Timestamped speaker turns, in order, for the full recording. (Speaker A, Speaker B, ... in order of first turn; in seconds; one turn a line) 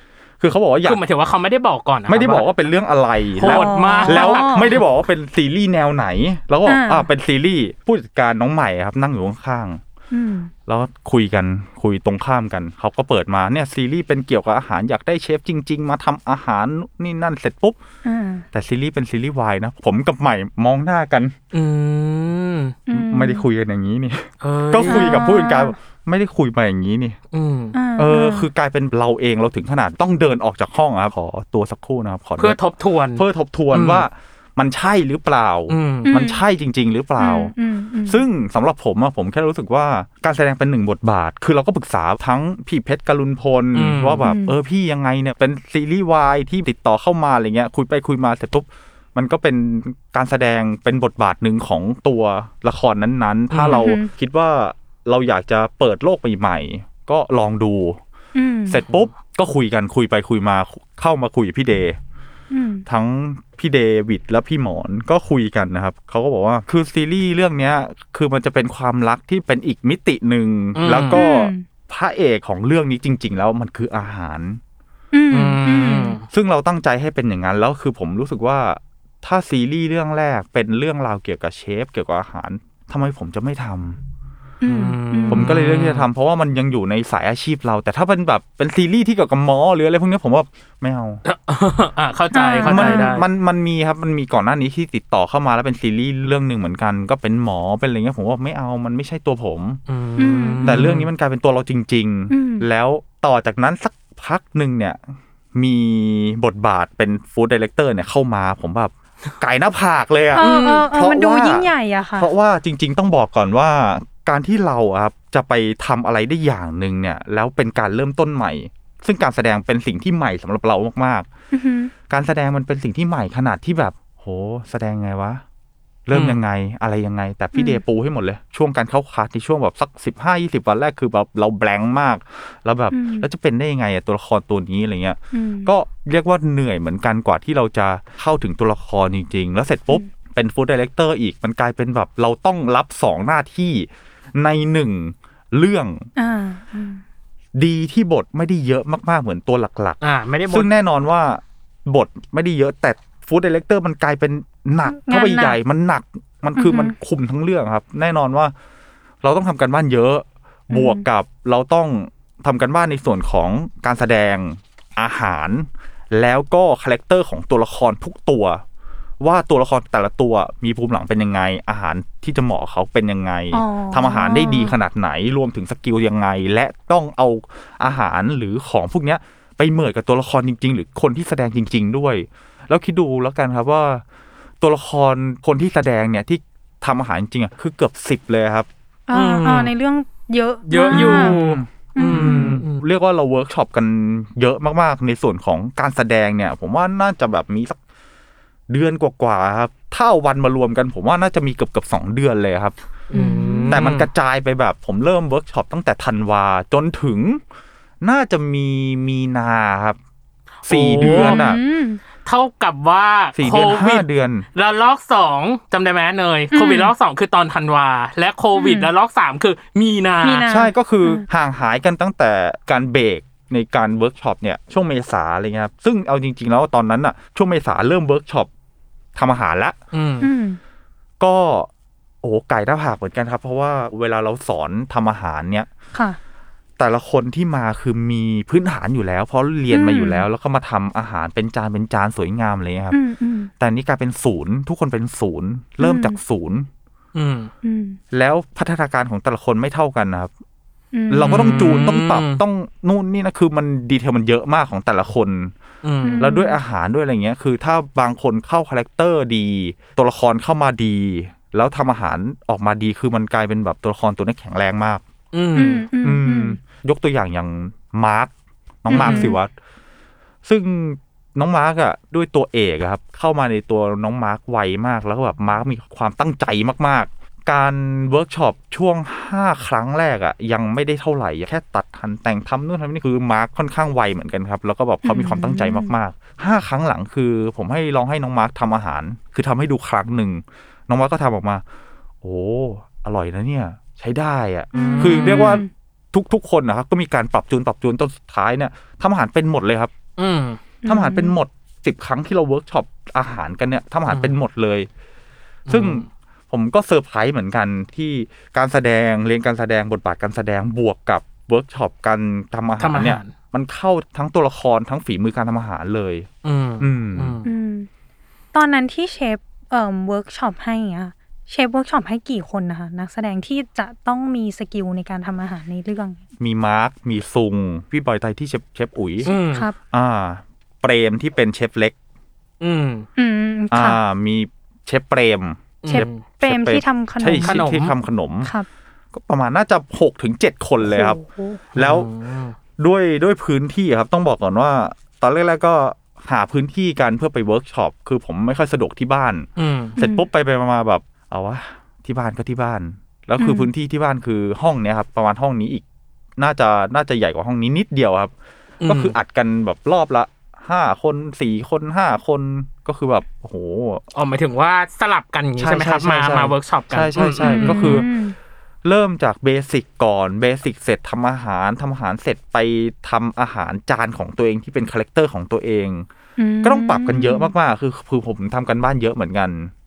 Speaker A: 0.4-1.0
Speaker B: 0.8-2.5
Speaker A: 2.1-9.8
Speaker B: 3.4-4.8
Speaker C: 3.4-4.7
Speaker C: 6.7-7.1
Speaker C: 10.1-10.5
Speaker A: 10.7-17.8
Speaker C: 18.1-18.4
Speaker A: 18.5-21.4
Speaker B: 21.5-22.8
Speaker C: 22.9-23.4
Speaker A: 22.9-27.2
Speaker B: 24.4-25.1
Speaker C: 24.9-25.7
Speaker B: 27.3-27.8
Speaker C: 27.7-28.5
Speaker A: 28.0-32.6
Speaker B: 32.4-34.1
Speaker A: 33.2-37.5
Speaker B: 35.7-36.1
Speaker C: 36.1-36.4
Speaker C: 37.2-38.2
Speaker A: 38.1-58.0
Speaker B: 43.7-44.2
Speaker C: 44.2-44.5
Speaker B: 53.5-53.8
Speaker C: 53.7-54.1
Speaker C: 58.4-58.8
Speaker A: 58.7-62.0
Speaker C: 62.5-62.9
Speaker A: 62.9-74.6
Speaker B: 70.8-71.2
Speaker C: 71.2-71.7
Speaker C: 75.1-76.2
Speaker B: 75.3-76.2
Speaker A: 76.3-84.0
Speaker C: 84.6-85.5
Speaker B: 84.7-86.1
Speaker A: 85.3-91.2
Speaker B: 91.2-93.2
Speaker C: 92.3-93.1
Speaker A: 92.7-99.8
Speaker B: 99.9-101.1
Speaker C: 100.2-100.7
Speaker A: 100.7-121.3
Speaker C: 102.3-102.7
Speaker C: 110.3-112.3
Speaker B: 110.4-110.9
Speaker C: 121.5-121.9
Speaker A: 122.1-125.4
Speaker A: 126.1-146.1
Speaker B: 126.1-126.4
Speaker C: 127.5-127.8
Speaker C: 132.9-133.3
Speaker C: 135.3-135.7
Speaker C: 146.2-147.0
Speaker A: 147.6-158.5
Speaker B: 150.0-150.7
Speaker C: 154.8-155.6
Speaker C: 156.6-156.9
Speaker A: 159.2-168.6
Speaker C: 160.7-161.1
Speaker A: 169.2-184.0
Speaker C: 173.5-174.7
Speaker A: 184.6-188.7
Speaker C: 189.1-191.4
Speaker B: 189.1-189.7
Speaker B: 190.7-192.8
Speaker A: 190.9-197.8
Speaker C: 192.0-192.6
Speaker A: 198.7-202.8
Speaker B: 203.1-204.1
Speaker C: 203.1-203.8
Speaker A: 203.7-207.4
Speaker A: 208.0-210.0
Speaker B: 210.7-211.4
Speaker A: 210.7-211.6
Speaker C: 211.0-212.0
Speaker B: 212.2-220.5
Speaker A: 213.4-214.5
Speaker C: 216.5-216.9
Speaker C: 218.6-218.9
Speaker C: 220.2-221.2
Speaker A: 220.5-228.5
Speaker A: 229.2-229.8
Speaker B: 229.9-230.3
Speaker C: 230.2-230.6
Speaker A: 231.2-231.7
Speaker A: 232.2-235.7
Speaker A: 236.8-243.0
Speaker C: 239.7-240.3
Speaker C: 242.9-243.5
Speaker A: 243.6-246.7
Speaker C: 245.8-246.2
Speaker B: 247.2-247.5
Speaker C: 247.6-248.0
Speaker A: 248.1-250.3
Speaker C: 250.9-251.4
Speaker A: 251.1-255.5
Speaker B: 251.2-252.4
Speaker B: 255.8-256.3
Speaker C: 256.0-256.6
Speaker A: 256.2-265.0
Speaker B: 265.3-265.9
Speaker C: 265.6-266.6
Speaker A: 266.0-268.3
Speaker A: 268.8-269.5
Speaker C: 268.9-269.4
Speaker B: 268.9-269.3
Speaker A: 270.4-291.6
Speaker C: 285.0-285.9
Speaker A: 292.2-299.9
Speaker C: 294.7-295.7
Speaker B: 294.8-295.6
Speaker B: 300.2-300.6
Speaker C: 300.8-301.3
Speaker A: 300.9-304.9
Speaker A: 305.7-316.3
Speaker B: 305.7-306.1
Speaker B: 312.8-313.3
Speaker B: 316.4-317.5
Speaker A: 316.8-317.4
Speaker C: 317.4-317.9
Speaker C: 318.5-326.2
Speaker A: 326.4-329.3
Speaker B: 329.2-329.7
Speaker A: 329.9-331.9
Speaker B: 332.6-333.1
Speaker C: 333.2-334.0
Speaker A: 333.7-338.5
Speaker B: 335.8-336.2
Speaker C: 335.9-337.6
Speaker B: 337.4-337.9
Speaker A: 339.1-341.2
Speaker C: 340.8-341.6
Speaker A: 341.8-342.1
Speaker B: 341.8-342.6
Speaker A: 342.8-355.8
Speaker B: 349.6-350.0
Speaker C: 350.0-350.3
Speaker C: 353.4-353.7
Speaker A: 356.4-358.3
Speaker B: 358.8-359.1
Speaker A: 358.9-364.0
Speaker B: 364.1-368.1
Speaker A: 365.6-368.1
Speaker C: 367.4-368.4
Speaker A: 368.8-376.1
Speaker C: 376.4-377.5
Speaker A: 376.6-379.7